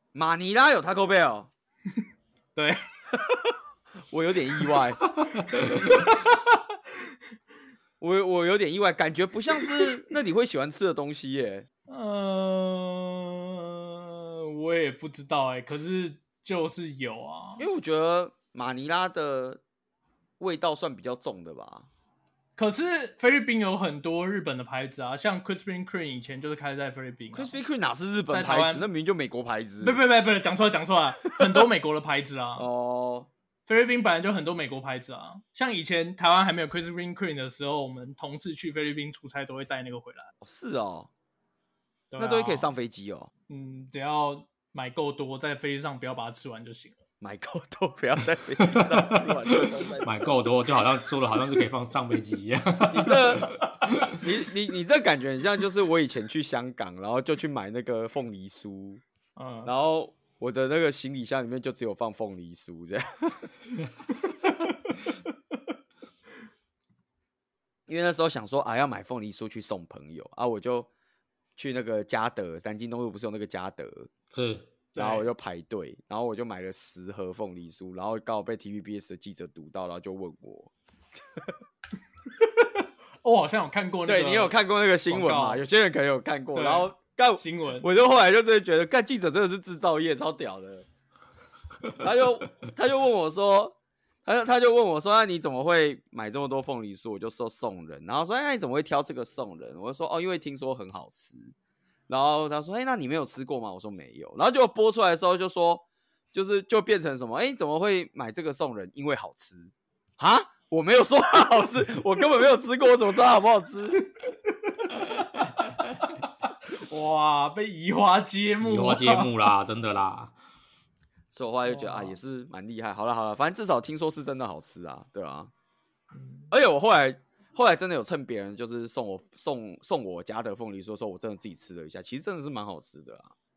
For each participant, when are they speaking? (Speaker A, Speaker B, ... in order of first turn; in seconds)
Speaker A: 0.1-1.5, 4.1-5.0, 8.0-11.7, 17.6-19.6, 20.4-21.9, 27.3-30.0, 32.6-33.3, 40.4-41.1, 42.2-43.3, 47.2-50.3, 52.9-53.5, 54.1-59.0, 59.6-63.5, 67.9-70.9, 71.6-74.1, 75.0-81.5, 84.0-90.9, 92.0-101.5, 102.1-114.0, 121.3-125.5, 126.5-133.3
Speaker B: 2.5-2.8, 5.5-6.2, 11.9-17.6, 22.6-27.6, 28.3-28.9, 29.8-32.7, 33.7-40.3, 42.1-42.6, 43.5-47.0, 59.4-59.7, 74.9-75.3, 82.4-84.5, 85.1-85.6, 86.5-87.9, 114.7-119.3, 121.7-122.1, 126.1-126.5
Speaker C: 48.6-54.2, 74.3-74.7, 118.6-120.3